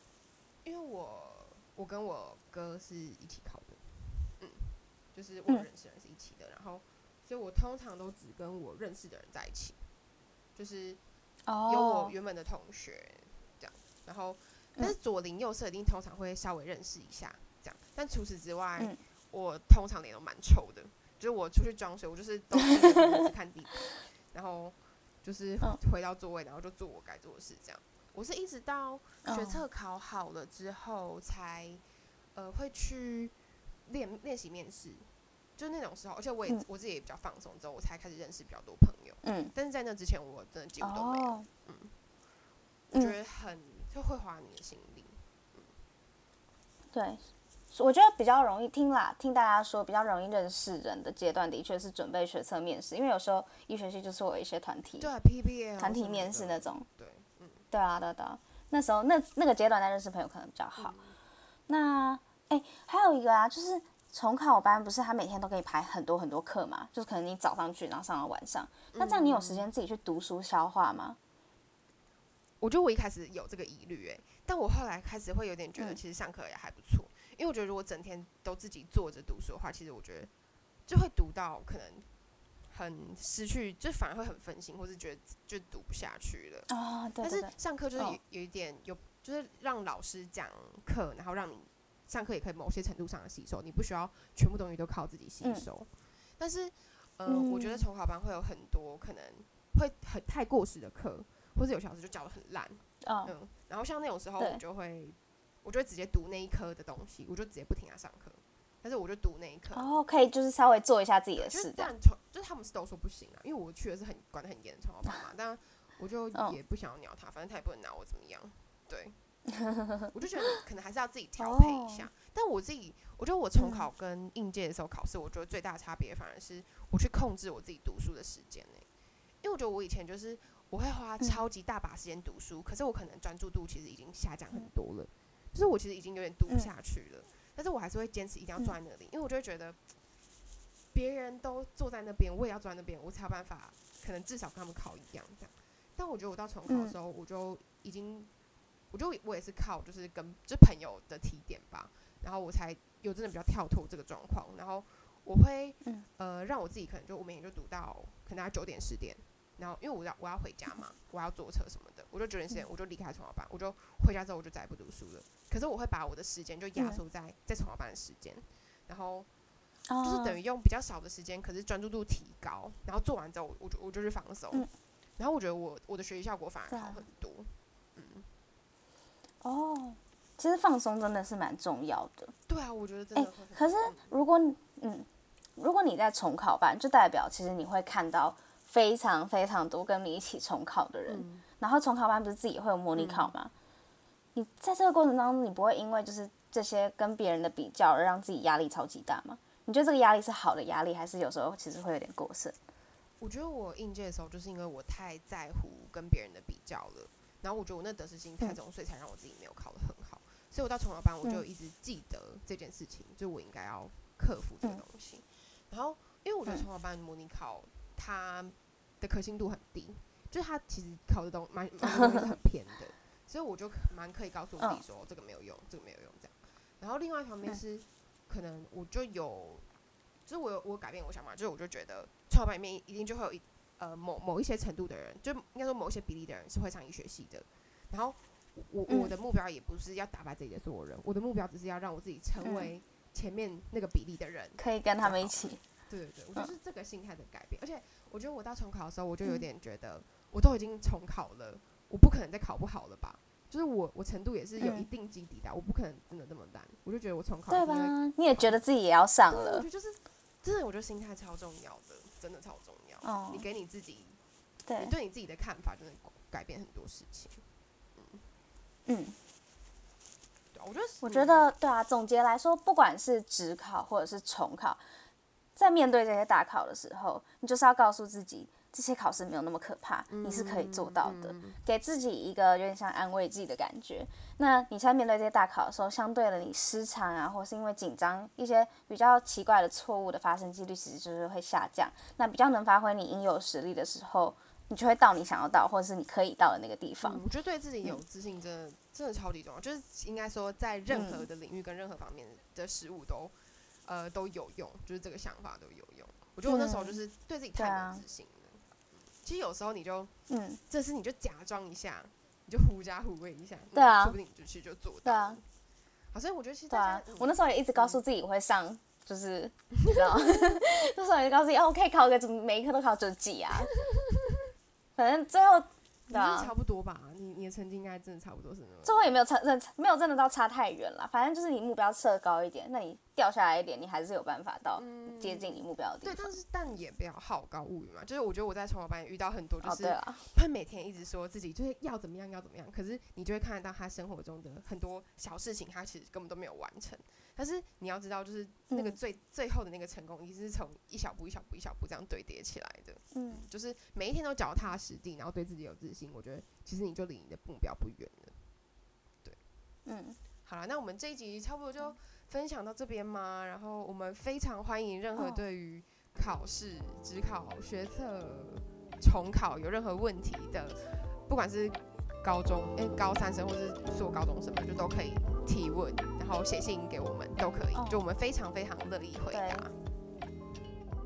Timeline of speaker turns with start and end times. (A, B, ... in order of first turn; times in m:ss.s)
0:00.6-0:09.8 A
0:10.6-0:11.0 A
0:11.5-0:12.1 B
0:11.7-0:31.8 A
0:22.6-0:23.2 B
0:29.2-0:29.6 B
0:32.4-0:33.3 A
0:33.9-0:41.9 A
0:39.2-0:39.5 B
0:40.8-0:41.5 B
0:42.9-0:45.8 A
0:46.9-0:55.1 B
0:55.0-0:57.6 A
0:55.8-0:56.9 B
0:57.7-1:01.0 B
1:00.8-1:01.2 A
1:01.7-1:11.2 B
1:08.9-1:09.7 A
1:12.6-1:20.3 A
1:20.9-1:22.1 A
1:22.7-1:26.7 A
1:26.7-1:28.2 B
1:27.2-1:50.0 A
1:37.3-1:37.8 B
1:43.0-1:43.3 B
1:49.7-1:51.9 B
1:51.4-1:59.2 A
1:59.6-2:00.1 B
2:00.1-2:08.9 A
2:01.4-2:02.1 B
2:03.6-2:03.9 B
2:09.4-2:19.8 A
2:20.9-2:28.3 A
2:26.7-2:27.0 B
2:28.9-2:49.3 A
2:49.9-2:50.4 B
2:50.0-2:58.3 A
2:56.7-2:57.0 B
2:59.4-3:02.3 B
3:02.5-3:04.1 A
3:03.2-3:13.5 B
3:11.1-3:11.4 A
3:13.0-3:13.3 A
3:14.4-3:22.6 B
3:23.2-3:49.7 A
3:41.8-3:42.2 B
3:50.3-4:18.6 A
3:58.9-3:59.1 B
4:02.4-4:02.7 B
4:04.6-4:05.6 B
4:14.6-4:14.9 B
4:17.5-4:19.7 B
4:19.3-4:24.2 A
4:23.0-4:23.4 B
4:24.7-4:24.9 B
4:24.8-4:27.4 A
4:28.0-4:28.2 A
4:28.9-4:29.2 B
4:30.5-4:31.5 A
4:31.0-4:34.8 B
4:35.6-4:57.2 B
4:40.1-4:41.6 A
4:57.0-5:03.3 A
5:00.9-5:01.3 B
5:03.8-5:10.1 A
5:06.5-5:07.0 B
5:07.6-5:08.0 B
5:10.3-5:10.6 B
5:10.7-5:15.4 A
5:13.7-5:14.2 B
5:15.0-5:15.4 B
5:16.1-5:18.0 A
5:16.7-5:23.8 B
5:25.0-5:26.5 B
5:26.1-5:29.1 A
5:28.8-5:36.4 B
5:34.8-5:58.4 A
5:39.6-5:40.2 B
5:48.7-5:49.0 B
5:53.1-5:53.4 B
5:59.9-6:00.2 B
6:00.4-6:19.7 A
6:05.2-6:05.4 B
6:17.7-6:18.0 B
6:19.3-6:19.7 B